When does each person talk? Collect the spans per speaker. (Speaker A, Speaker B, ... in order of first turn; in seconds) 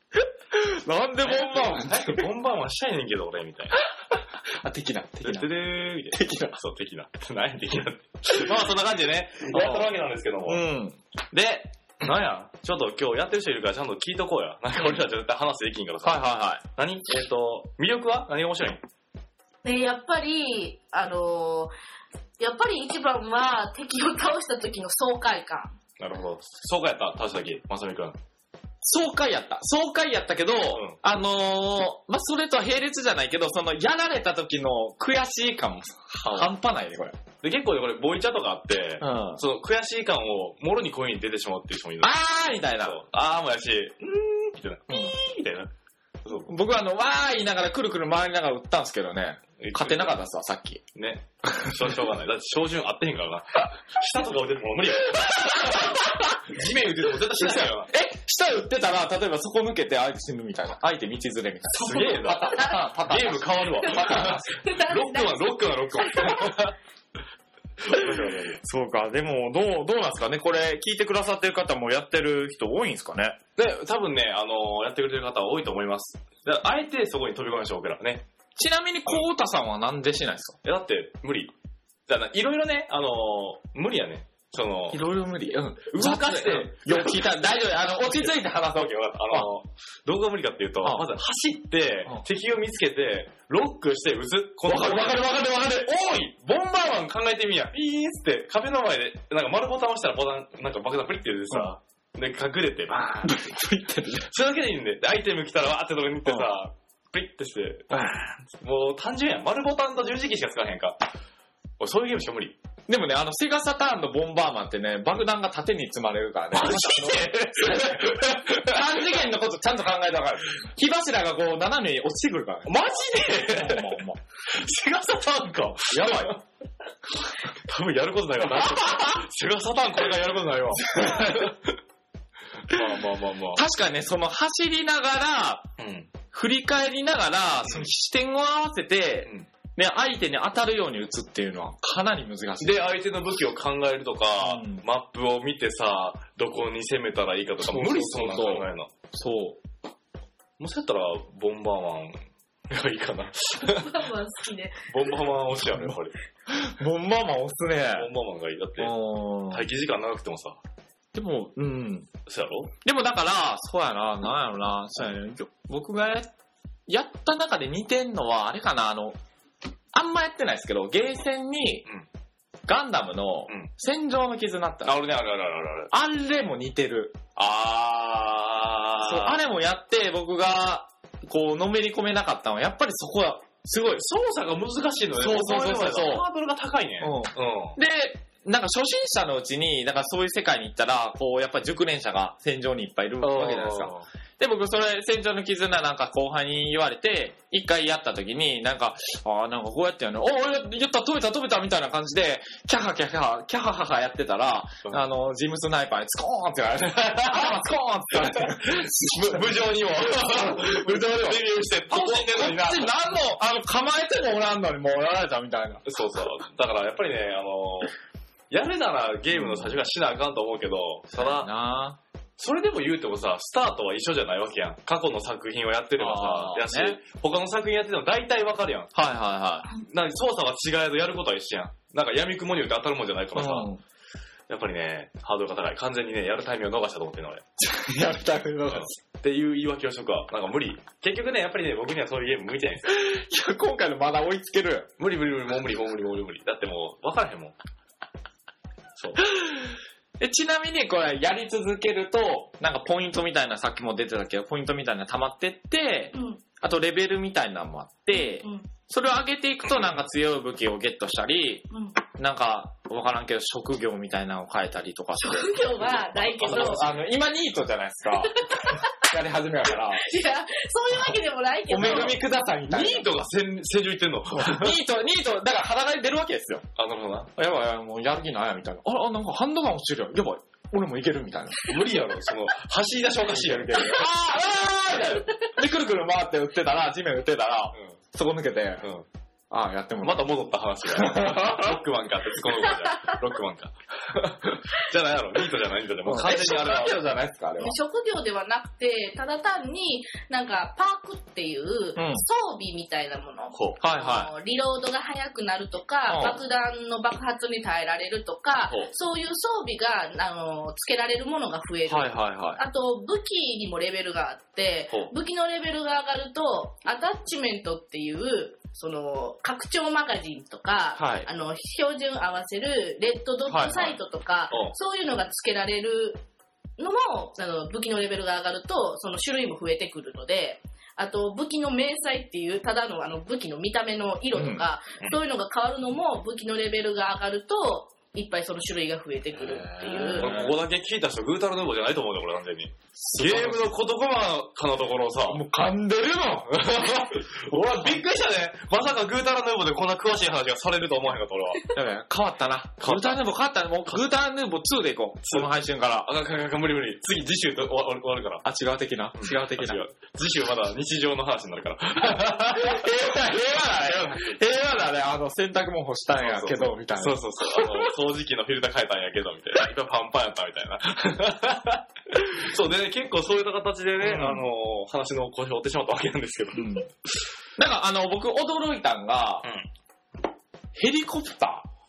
Speaker A: 0.1-2.3, 4.1-5.5, 6.1-6.6, 9.5-9.9, 10.5-11.0, 16.0-16.6, 28.8-37.2, 39.0-39.4, 42.0-43.0, 44.9-45.2, 46.5-50.8, 51.5-51.8, 55.1-56.4, 57.3-64.6, 68.6-73.4, 78.6-80.6, 84.9-89.5, 94.7-96.0, 103.2-104.3, 107.9-108.2, 112.9-124.2, 125.9-126.4, 128.4-129.2, 130.8-131.5, 132.7-133.0, 133.5-135.7, 136.3-142.8, 144.4-144.8, 147.6-149.6, 156.5-158.1, 158.8-159.7, 161.1-162.1, 162.8-166.3, 166.9-169.2, 169.9-171.8, 172.7-175.0, 175.9-177.2, 179.0-184.1, 185.2-186.3, 187.0-209.5, 210.1-215.8, 219.3-219.8, 221.2-222.0, 226.0-227.0, 228.9-229.7, 233.3-233.8, 237.6-238.9, 242.9-244.9, 249.2-270.1, 271.7-273.1, 274.4-276.7, 277.4-281.7, 283.3-288.9, 289.5-290.3, 290.9-291.8, 296.1-297.8, 302.0-302.2, 303.8-304.3, 306.1-306.4, 311.9-312.6, 321.0-321.3, 323.5-323.9, 334.3-334.6, 339.4-340.6, 343.0-343.7, 345.3-348.0, 351.7-356.1, 358.4-359.9, 362.5-367.9, 374.0-374.5, 376.6-376.9, 377.6-379.4, 380.8-381.7
Speaker B: 1.2-3.9, 5.2-10.6, 11.3-18.8, 26.0-28.2, 30.7-31.0, 37.4-42.1, 42.8-45.7, 46.2-46.5, 49.6-50.2, 51.0-57.9, 61.7-66.8, 67.8-68.6, 73.6-78.2, 80.6-81.5, 82.1-85.0, 85.9-87.3, 88.1-103.4, 104.3-111.0, 111.8-112.6, 116.5-118.8, 122.7-126.4, 127.5-131.8, 132.7-133.6, 135.8-136.1, 142.6-148.9, 150.6-154.1, 154.9-156.2, 158.0-159.0, 159.5-160.6, 162.3-162.7, 174.8-175.9, 177.4-179.4, 184.0-187.8, 193.2-194.1, 206.9-207.6, 208.2-213.0, 215.8-217.9, 218.5-221.5, 222.4-228.9, 229.7-233.7, 234.5-237.4, 238.7-242.9, 245.0-247.5, 249.0-249.2, 266.4-266.9, 271.8-272.1, 272.7-274.8, 276.8-277.3, 281.7-284.0, 290.0-297.0, 303.5-303.8, 340.2-345.4, 346.5-351.8, 352.8-353.2, 356.0-358.4, 359.2-362.9, 363.8-364.4, 366.2-376.8
Speaker C: 19.6-21.7, 22.4-25.8, 62.5-62.8, 63.8-66.6, 153.8-154.9, 256.1-256.4, 258.1-258.7, 261.7-262.0, 265.2-266.9, 268.4-268.9, 269.9-272.2, 297.6-326.2, 326.8-340.3